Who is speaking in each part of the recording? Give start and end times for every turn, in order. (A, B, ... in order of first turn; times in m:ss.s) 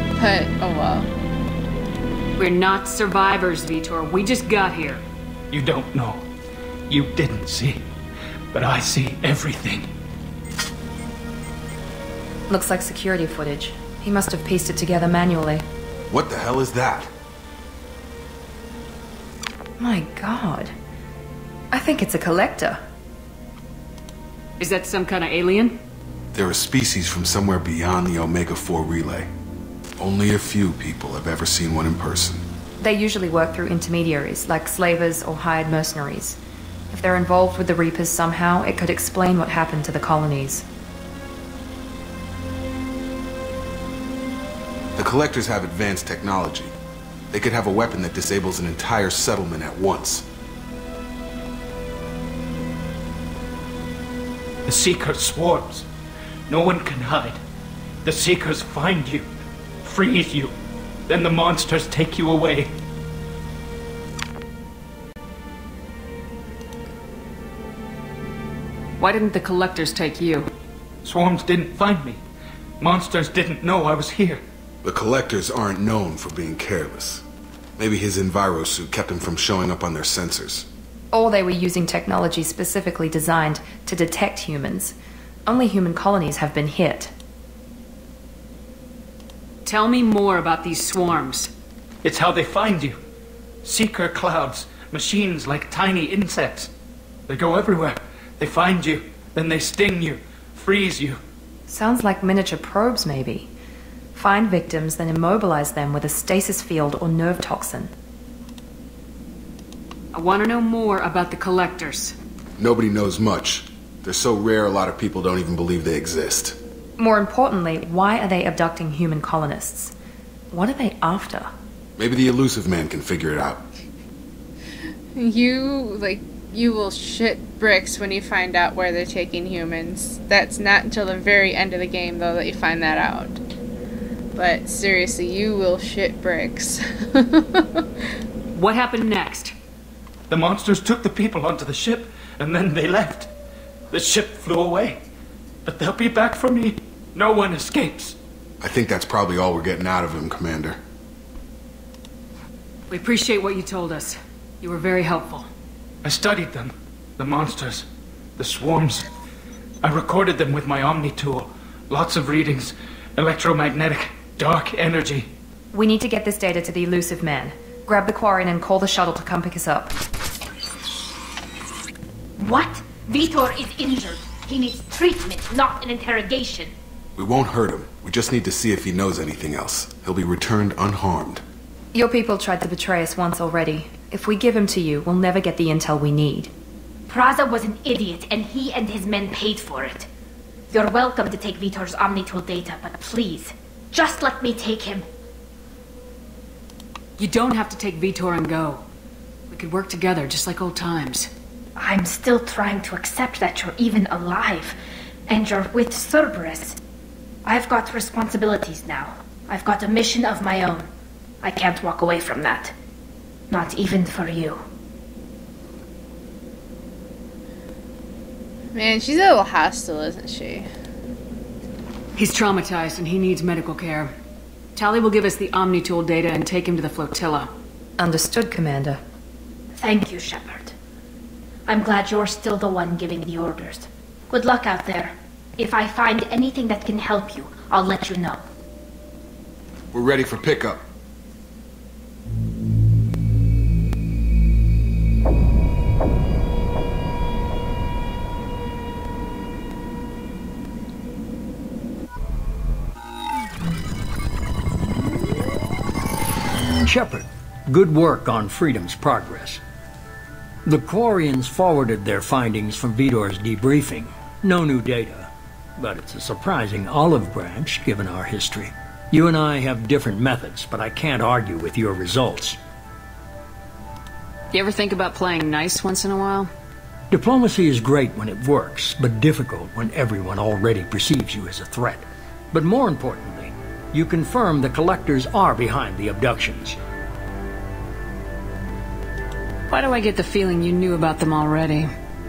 0:00.2-0:01.1 A
0:02.4-0:05.0 B
0:05.5-0:06.2 C
0:06.9-0:07.8 C
0:08.5-0:09.9 C
0:12.5-0:15.6 D
0:16.1-0:17.1 E
0:19.8-0:20.7 D
0:21.7-0:22.8 D
0:24.6-0:25.8 B
0:26.3-0:29.3 E
0:30.0-0:32.4 E
0:32.8-0:36.4 D
0:36.9-0:40.6 D
0:45.0-0:46.7 E
0:47.3-0:50.2 E
0:54.6-0:55.8 C
0:56.5-0:57.4 C
0:58.0-0:59.2 C
0:59.8-1:00.5 C
1:01.1-1:02.7 C
1:09.0-1:10.5 B
1:11.0-1:12.2 C
1:12.8-1:14.4 C
1:14.8-1:17.2 E
1:17.8-1:20.7 E
1:21.1-1:25.0 D
1:25.5-1:27.1 D
1:29.6-1:31.5 B
1:32.0-1:33.0 C
1:33.6-1:36.7 C
1:37.3-1:41.2 C
1:41.7-1:43.5 D
1:44.1-1:47.9 D
1:50.1-1:52.1 B
1:52.6-1:56.6 E
1:57.0-1:59.9 D
2:00.5-2:01.5 D
2:02.0-2:03.6 E
2:05.1-2:13.4 A
2:14.4-2:17.8 A
2:18.5-2:19.5 B
2:20.3-2:23.3 C
2:23.9-2:25.0 C
2:25.6-2:28.2 C
2:28.6-2:30.8 E
2:32.9-2:35.5 B
2:36.0-2:37.8 C
2:38.4-2:39.0 C
2:39.8-2:45.3 C
2:45.7-2:49.9 D
2:52.4-2:56.7 F
2:57.2-3:01.4 E
3:01.9-3:06.5 D
3:07.1-3:10.1 F
3:10.7-3:15.0 F
3:17.2-3:18.8 B
3:19.5-3:21.3 B
3:21.8-3:24.8 F
3:25.3-3:26.8 F
3:27.4-3:30.9 F
3:31.4-3:32.7 F
3:33.5-3:34.6 F
3:38.7-3:40.7 A
3:42.2-3:44.1 B
3:44.7-3:47.5 B
3:48.0-3:49.0 D
3:49.8-3:50.7 F
3:51.7-3:58.4 F
3:59.9-4:00.8 E
4:16.8-4:19.6 G
4:20.6-4:32.6 G
4:34.5-4:36.5 B
4:37.1-4:46.8 G
4:49.7-4:51.9 B